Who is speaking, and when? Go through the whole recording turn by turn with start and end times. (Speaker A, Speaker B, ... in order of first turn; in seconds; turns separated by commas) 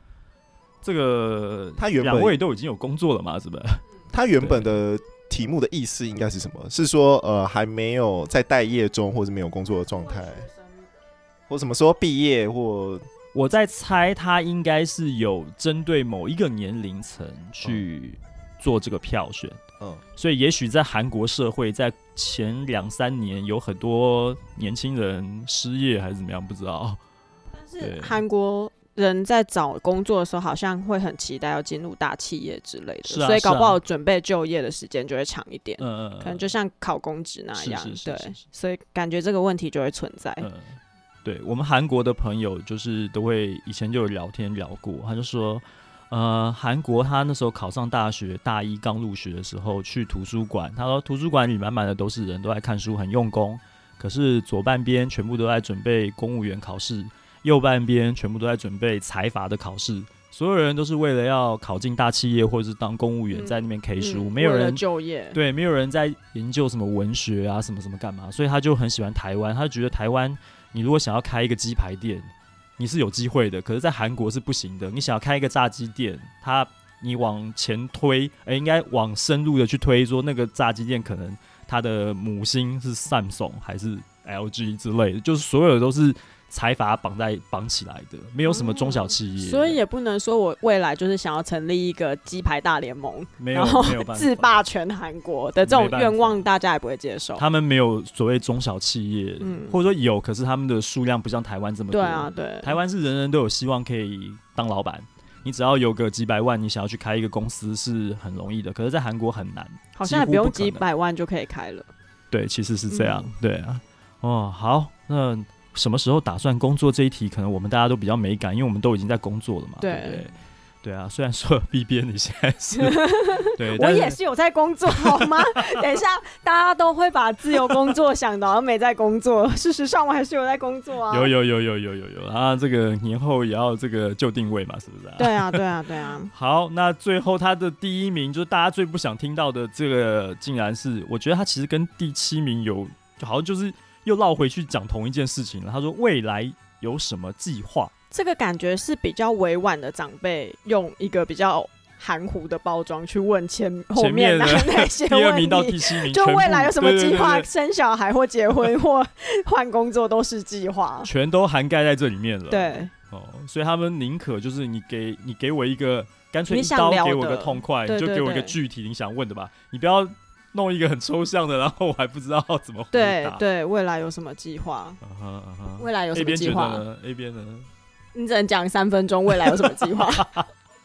Speaker A: 0.8-3.8, Speaker B: 1.8-2.4, Speaker B: 4.1-10.5, Speaker A: 4.4-4.8, Speaker C: 10.0-10.7, Speaker B: 11.5-13.1, Speaker A: 13.3-19.6, Speaker A: 20.2-27.0, Speaker C: 27.5-40.5, Speaker A: 27.8-28.2, Speaker A: 33.0-33.8, Speaker A: 35.8-36.5, Speaker A: 37.5-38.4, Speaker A: 40.4-89.8, Speaker C: 63.3-65.4, Speaker C: 88.5-97.4, Speaker A: 93.4-94.5, Speaker A: 95.6-96.4, Speaker A: 97.4-110.8, Speaker C: 99.4-99.8, Speaker C: 101.9-102.8, Speaker C: 110.0-111.9, Speaker A: 112.3-124.2, Speaker C: 112.9-113.3, Speaker C: 119.8-120.3, Speaker C: 122.8-131.3, Speaker A: 125.0-125.7, Speaker A: 131.1-135.6, Speaker C: 135.2-136.3, Speaker A: 136.3-147.9, Speaker C: 148.1-161.1, Speaker A: 153.9-157.5, Speaker A: 161.0-173.4, Speaker C: 162.5-162.9, Speaker C: 166.5-168.6, Speaker C: 172.9-175.0, Speaker A: 175.0-177.7, Speaker C: 175.8-176.8, Speaker C: 178.1-180.3, Speaker A: 179.6-180.5